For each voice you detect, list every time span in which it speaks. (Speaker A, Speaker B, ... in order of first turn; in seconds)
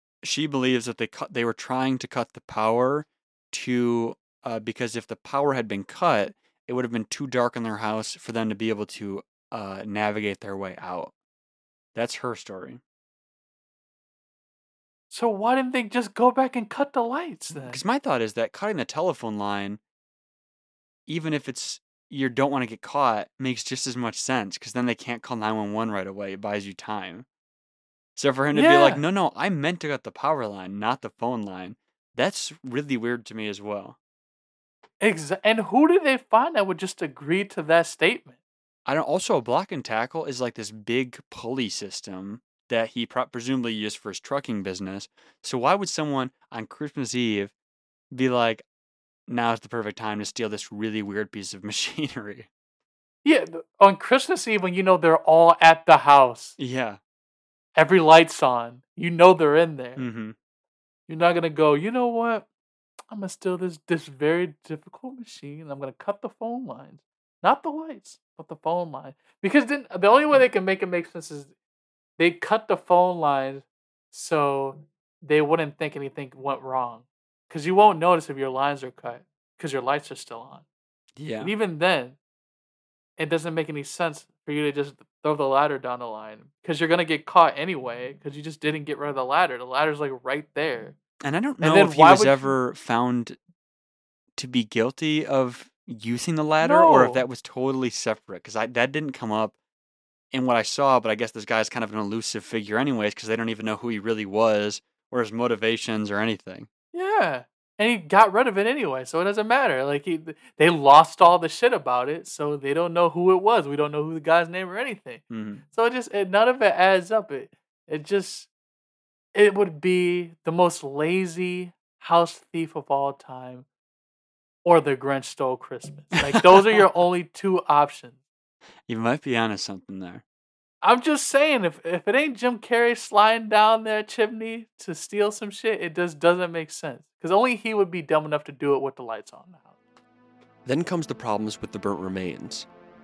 Speaker A: 0.2-11.1, 11.9-12.8, 17.7-19.8, 21.1-27.2, 28.1-34.0, 38.9-47.5, 48.1-48.6, 49.3-52.5, 56.6-57.0, 60.0-60.3, 81.2-81.5, 91.2-93.4, 94.4-99.5, 100.3-106.7, 115.3-115.6, 126.2-126.8, 128.9-130.2
Speaker B: 15.1-17.8, 28.5-29.0, 35.0-38.4, 53.2-56.6, 57.8-60.0, 61.1-62.5, 63.1-71.5, 72.2-80.6, 81.4-82.2, 83.2-91.0, 91.6-92.5, 96.6-97.2, 106.9-118.5, 119.3-123.7, 124.6-128.2, 130.8-139.7
Speaker C: 140.7-142.7